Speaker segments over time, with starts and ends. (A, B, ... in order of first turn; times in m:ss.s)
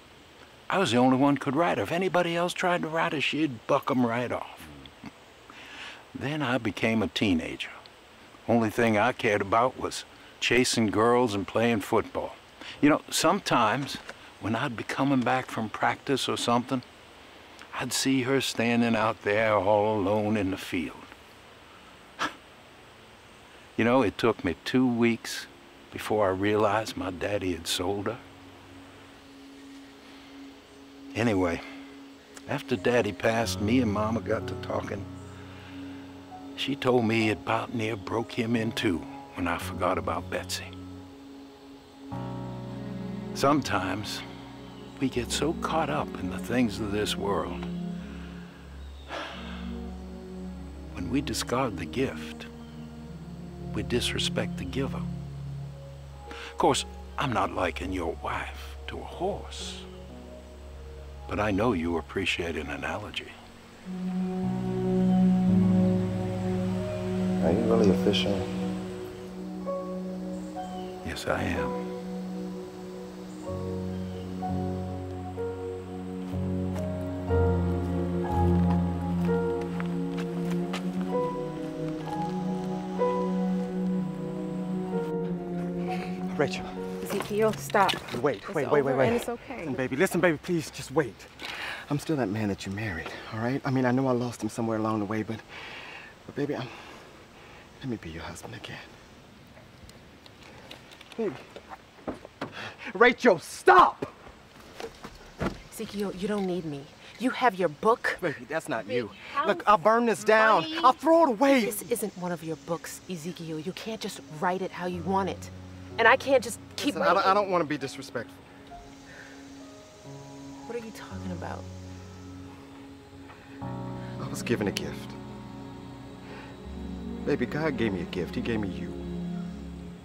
0:00.7-0:04.7 A
0:06.1-0:07.8 A
0:08.5-0:16.8 A
0:17.7-0:21.1 A
0:23.8-0:28.2 A
0:31.1-0:31.6 A
0:32.5-0:35.1 A
0:36.6-0:40.7 A
0:43.3-0:44.2 A
0:45.0-0:47.7 A
0:50.9-0:52.5 A
0:53.7-0:55.1 A
0:56.6-0:59.9 A
1:01.3-1:03.3 A
1:07.4-1:08.5 B
1:11.0-1:11.8 A
1:26.3-1:26.8 B
1:27.0-1:29.8 C
1:28.1-1:37.2 B
1:37.8-1:38.9 B
1:41.1-1:41.4 B
1:42.6-1:44.1 B
1:45.7-1:57.4 C
1:48.2-1:51.8 B
1:56.8-1:58.5 B
2:00.6-2:01.7 C
2:04.2-2:05.2 B
2:07.2-2:09.0 B